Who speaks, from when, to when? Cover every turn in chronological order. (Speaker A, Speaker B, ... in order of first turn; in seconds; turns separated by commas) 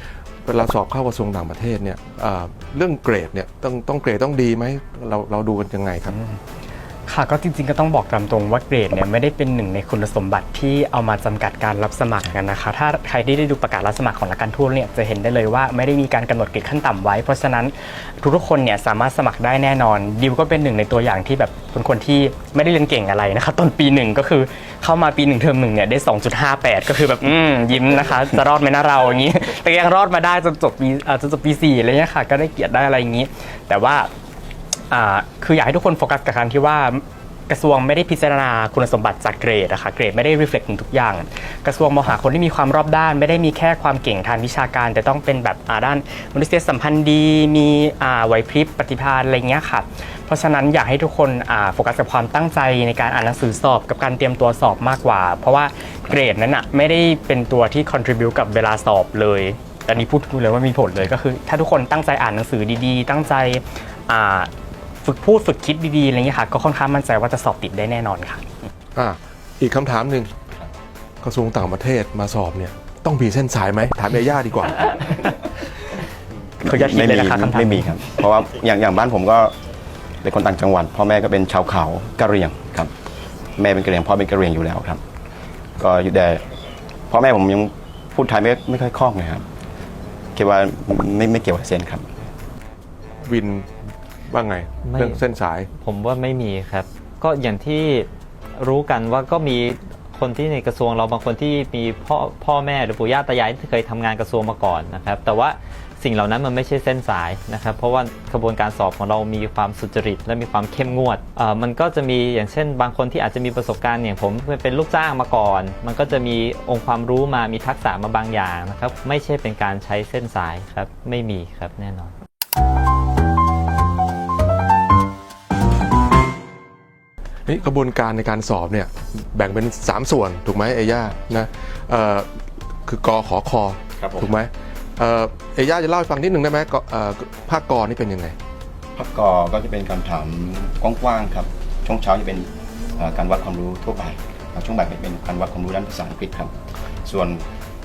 Speaker A: 0.5-6.2, Speaker B: 6.1-6.4, Speaker B: 7.1-34.1, Speaker B: 34.9-64.5, Speaker B: 65.0-68.4, Speaker A: 69.0-70.3, Speaker A: 71.2-75.2, Speaker C: 76.6-79.5, Speaker B: 76.6-78.0, Speaker C: 80.2-82.9, Speaker C: 83.6-85.0, Speaker C: 85.8-86.5, Speaker C: 87.1-89.5, Speaker C: 90.3-92.1, Speaker A: 93.2-93.7, Speaker A: 94.3-95.7, Speaker D: 94.8-95.2, Speaker D: 95.8-122.1, Speaker A: 127.5-132.3, Speaker A: 132.8-138.3, Speaker C: 134.0-134.3, Speaker C: 138.9-147.4